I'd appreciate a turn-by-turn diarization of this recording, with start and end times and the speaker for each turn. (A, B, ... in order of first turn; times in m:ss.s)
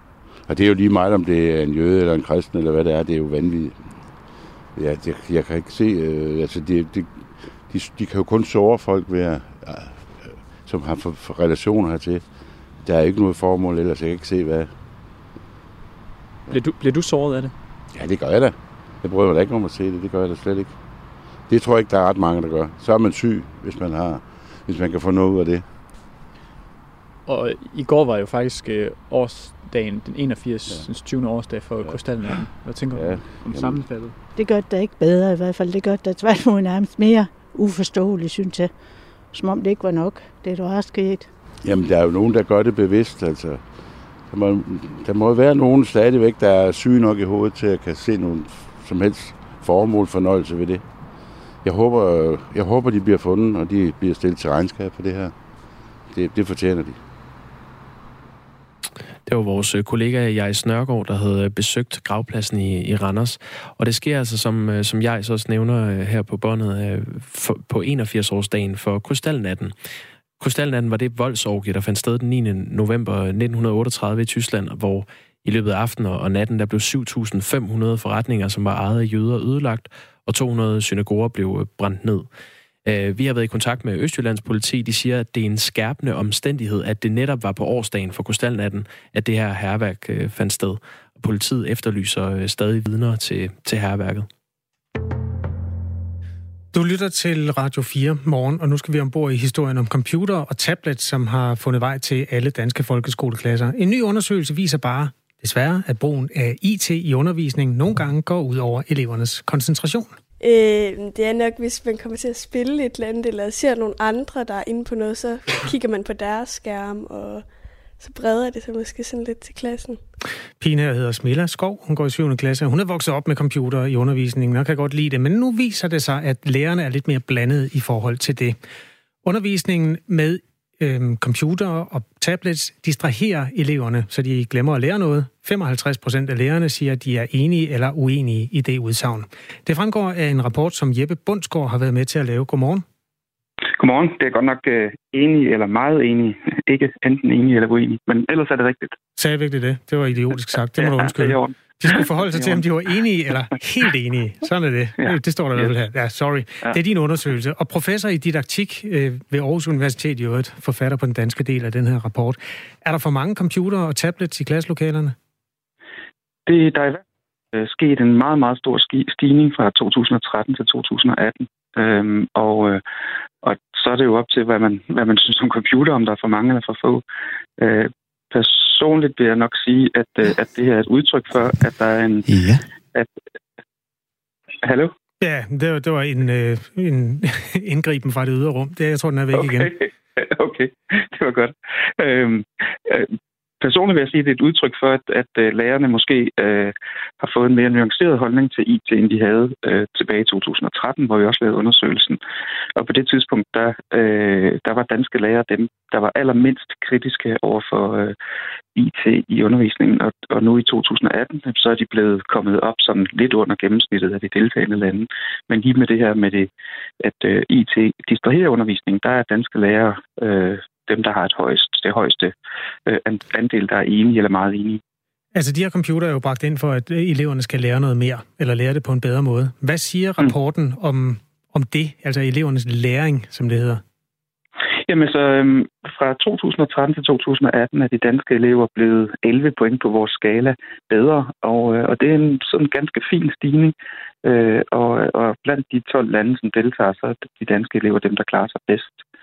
0:00.4-0:14.7 A
0:16.5-0:17.5 B
0:17.9-0:20.8 A
0:21.4-0:25.7 A
0:27.3-0:34.2 B
0:30.6-0:34.0 A
0:34.3-0:41.3 C
0:41.6-0:50.9 A
0:51.5-0:55.5 A
0:56.0-0:57.0 A
0:59.2-1:09.7 D
1:10.4-1:22.3 D
1:22.8-1:34.3 D
1:36.7-1:50.2 E
1:50.4-2:00.0 F
2:00.6-2:08.6 E
2:09.2-2:22.8 E
2:23.7-2:29.0 G
2:29.2-2:45.2 E
2:30.8-2:32.6 G
2:35.0-2:35.7 G
2:46.5-2:47.0 G
2:47.5-2:52.8 G
2:53.4-2:57.0 G
2:57.6-3:02.3 G
3:04.6-3:04.9 G
3:05.2-3:09.7 E
3:09.3-3:22.2 G
3:22.8-3:28.2 G
3:28.8-3:36.5 G
3:37.0-3:42.3 G
3:42.8-3:44.8 G
3:45.3-3:53.8 E
3:54.8-4:03.7 G
4:04.2-4:09.0 G